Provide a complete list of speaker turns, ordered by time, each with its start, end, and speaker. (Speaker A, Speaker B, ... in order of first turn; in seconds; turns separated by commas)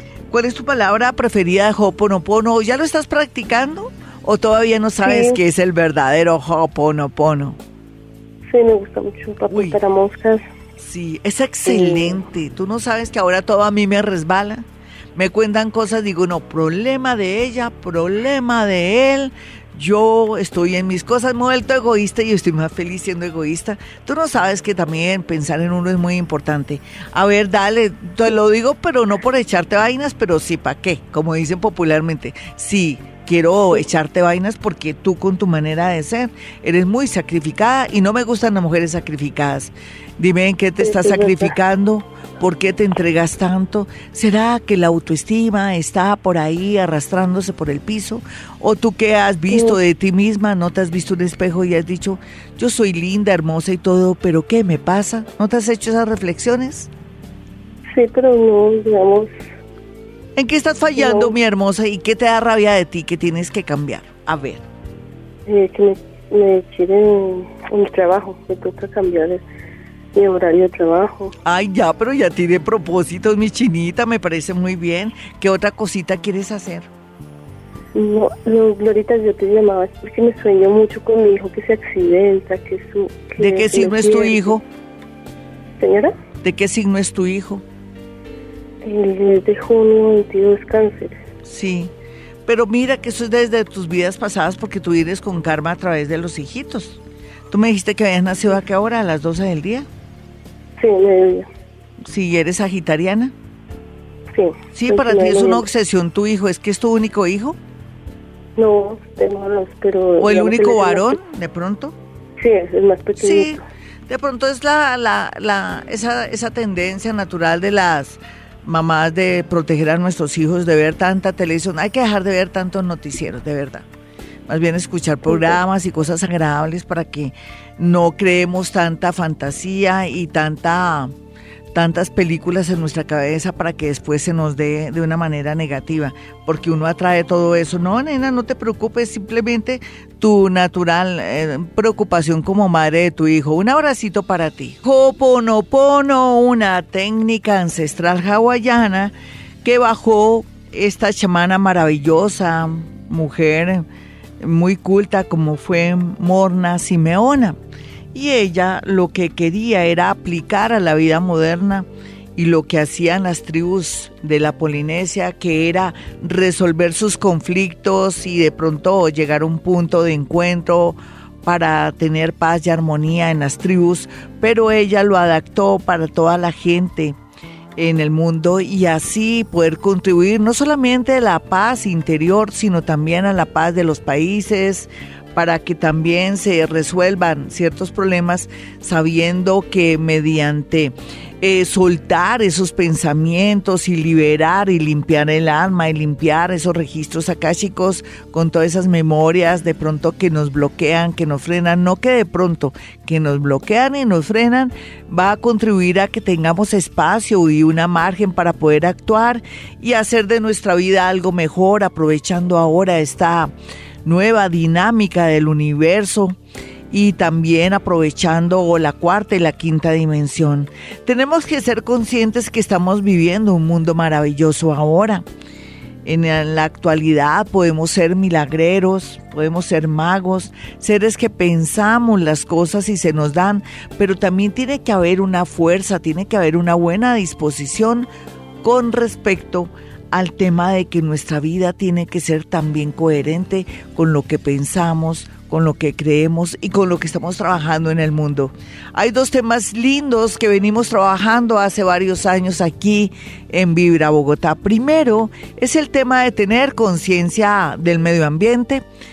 Speaker A: 0.3-7.6, Speaker B: 5.0-5.4, Speaker B: 8.5-10.4, Speaker A: 9.5-9.8, Speaker A: 10.8-56.9, Speaker B: 11.6-12.2, Speaker B: 40.8-41.5, Speaker B: 49.5-49.8, Speaker B: 57.9-59.3, Speaker A: 60.4-64.6, Speaker B: 61.0-61.3, Speaker B: 65.5-69.4, Speaker B: 70.1-71.3, Speaker A: 71.4-76.9, Speaker B: 77.9-84.6, Speaker A: 83.4-84.6, Speaker B: 85.8-86.1, Speaker A: 86.4-87.6, Speaker B: 88.8-91.1, Speaker A: 91.4-91.9, Speaker A: 92.5-97.0, Speaker A: 97.5-99.9, Speaker B: 100.8-101.5, Speaker A: 102.0-103.3, Speaker B: 104.3-105.6, Speaker A: 104.7-107.6, Speaker B: 108.6-111.2, Speaker A: 110.2-111.9, Speaker B: 112.4-113.6, Speaker A: 113.2-123.8, Speaker A: 124.5-131.1, Speaker A: 131.7-153.8, Speaker A: 154.4-157.6, Speaker A: 158.1-177.2, Speaker A: 177.8-213.5, Speaker A: 214.0-216.3, Speaker A: 216.9-225.2, Speaker A: 226.0-238.1, Speaker A: 238.6-258.8